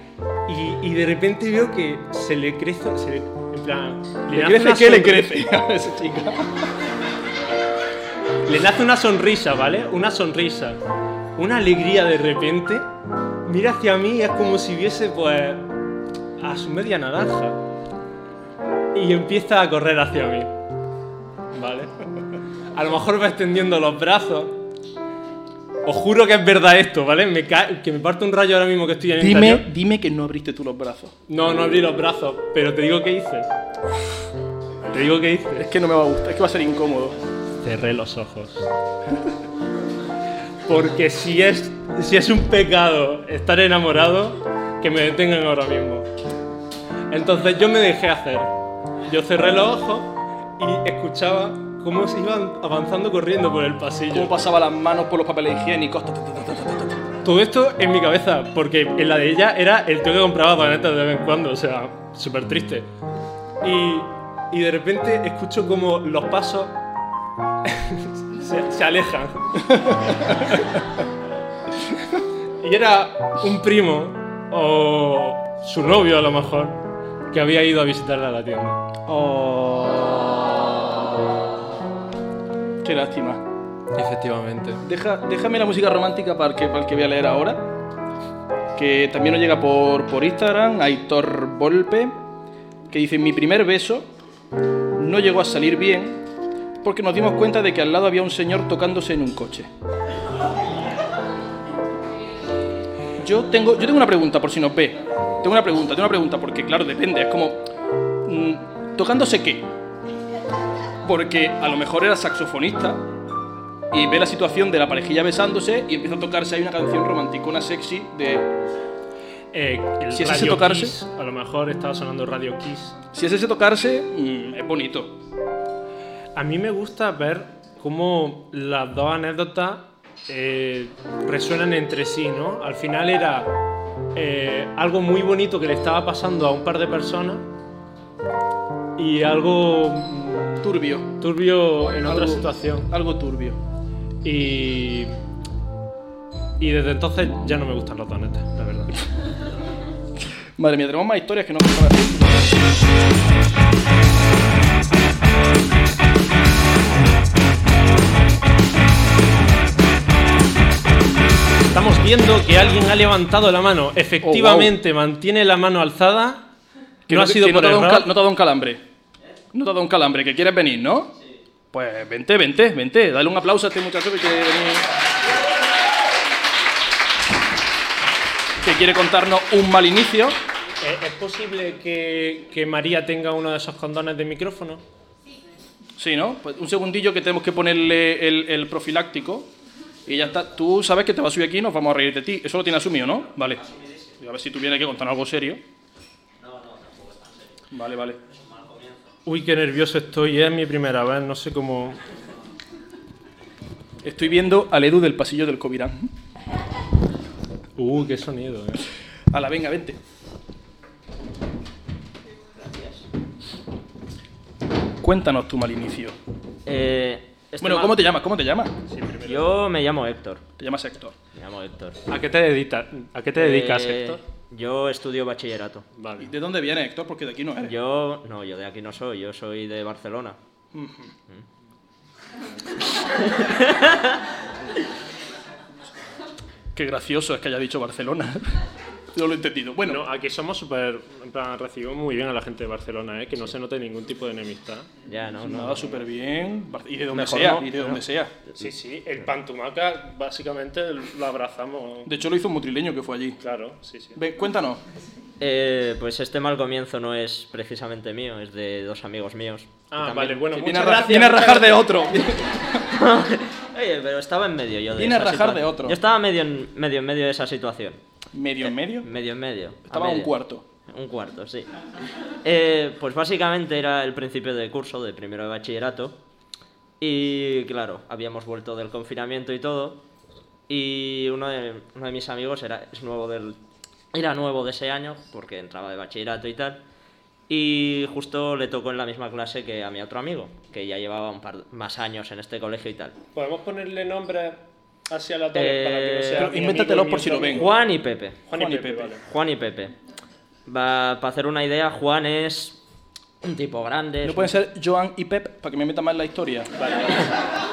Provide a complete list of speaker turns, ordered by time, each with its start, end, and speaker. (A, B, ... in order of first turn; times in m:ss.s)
0:00.5-0:05.3 A
0:04.3-0:06.7 B
0:08.4-0:10.8 A
0:11.4-0:12.9 A
0:13.4-0:15.7 A
0:16.4-0:17.6 A
0:18.9-0:20.5 A
0:21.5-0:21.9 A
0:22.7-0:24.6 A
0:25.8-0:29.6 A
0:29.2-0:31.1 B
0:31.3-0:33.5 A
0:34.9-0:35.7 A
0:35.6-0:37.2 B
0:37.6-0:38.7 A
0:40.6-0:46.1 A
0:47.1-0:48.5 A
0:49.0-0:54.3 A
0:54.1-0:57.0 B
0:57.2-1:02.9 A
1:03.6-1:06.7 A
1:07.6-1:10.6 A
1:09.7-1:10.5 B
1:12.6-1:18.8 A
1:19.0-1:20.9 B
1:22.8-1:23.4 B
1:23.9-1:24.8 A
1:24.8-1:27.7 B
1:28.7-1:32.2 B
1:32.9-1:34.1 B
1:35.0-1:36.2 B
1:36.8-1:39.7 B
1:43.2-1:47.6 B
1:48.2-1:49.7 B
1:51.0-1:53.0 B
1:53.9-1:58.5 B
1:59.5-2:03.0 A
2:00.1-2:00.9 B
2:03.1-2:05.2 B
2:06.4-2:13.5 A
2:14.1-2:17.4 A
2:19.0-2:22.9 A
2:20.6-2:21.1 B
2:22.0-2:23.6 B
2:24.2-2:25.2 A
2:26.6-2:29.0 A
2:30.6-2:32.6 B
2:41.7-2:46.5 A
2:44.2-2:44.7 B
2:47.1-2:48.8 B
2:47.1-2:48.1 A
2:49.5-2:51.1 B
2:51.7-2:54.9 B
2:58.6-3:00.4 B
3:00.8-3:04.8 A
3:06.0-3:09.5 B
3:10.0-3:13.6 B
3:14.2-3:15.6 B
3:16.4-3:17.6 C
3:17.7-3:18.2 B
3:18.3-3:19.0 C
3:19.2-3:22.0 A
3:24.0-3:26.1 B
3:27.8-3:28.9 A
3:29.3-3:30.0 B
3:32.6-3:33.0 C
3:35.0-3:36.2 B
3:36.6-3:38.0 C
3:37.6-3:38.8 B
3:38.9-3:39.6 A
3:39.2-3:40.4 C
3:40.6-3:41.1 B
3:41.3-3:42.0 C
3:42.1-3:44.2 A
3:43.4-3:45.8 C
3:45.9-3:46.3 A
3:46.2-3:47.7 B
3:47.6-3:50.4 C
3:50.7-3:51.1 B
3:53.0-3:54.2 C
3:56.7-4:00.0 B
3:59.8-4:04.9 A
4:05.0-4:05.9 C
4:05.4-4:08.3 B
4:07.1-4:07.6 A
4:07.3-4:07.9 C
4:08.6-4:12.1 A
4:12.1-4:13.4 B
4:13.4-4:14.2 A
4:14.2-4:14.8 B
4:15.4-4:20.6 C
4:19.9-4:21.9 A
4:20.5-4:22.8 B
4:22.8-4:28.0 C
4:25.0-4:26.0 B
4:28.3-4:29.1 B
4:29.0-4:30.3 C
4:29.9-4:30.6 B
4:30.9-4:31.7 C
4:32.4-4:36.2 C
4:37.0-4:40.0 C
4:40.7-4:43.6 C
4:44.1-4:46.8 C
4:47.5-4:53.2 C
4:53.3-4:57.8 A
4:55.5-4:56.5 C
4:56.3-4:57.7 B
4:57.5-4:58.4 C
4:58.5-4:59.2 A
4:58.6-4:59.1 B
4:59.2-4:59.9 C
5:00.6-5:02.8 C
5:03.4-5:04.5 C
5:04.2-5:06.7 B
5:06.8-5:07.2 A